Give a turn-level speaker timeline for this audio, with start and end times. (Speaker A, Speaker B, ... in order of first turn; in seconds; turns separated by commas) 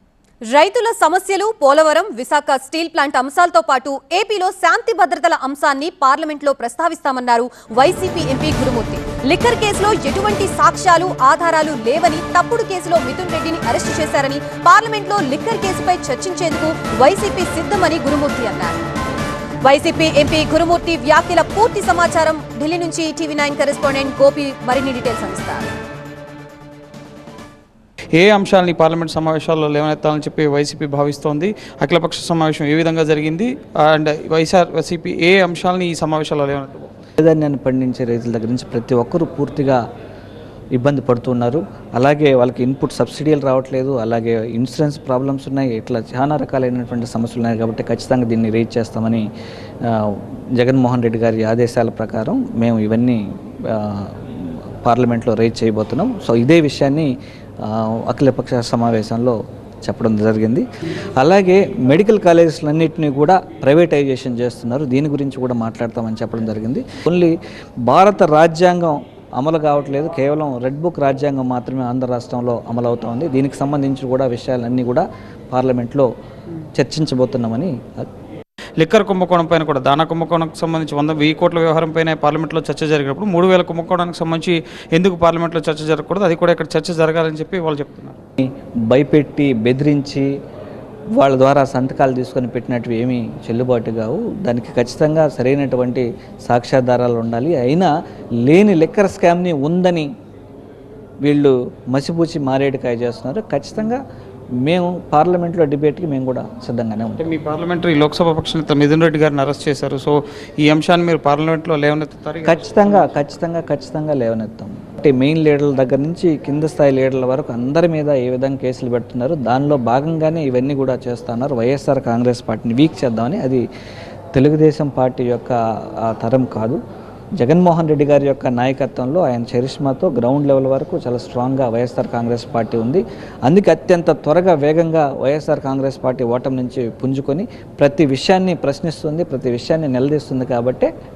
Speaker A: 0.5-18.8, Speaker A: 19.6-25.7, Speaker B: 28.1-36.9, Speaker C: 37.2-39.8, Speaker C: 40.8-49.2, Speaker C: 49.8-60.6, Speaker C: 61.2-67.3, Speaker C: 67.9-76.1, Speaker C: 76.7-78.0, Speaker B: 78.8-88.2, Speaker C: 88.4-90.3, Speaker C: 91.2-97.9, Speaker C: 98.4-100.1, Speaker C: 101.2-104.0, Speaker C: 104.6-107.3, Speaker B: 107.2-113.2, Speaker C: 112.4-123.6, Speaker C: 124.3-126.8, Speaker C: 127.4-140.9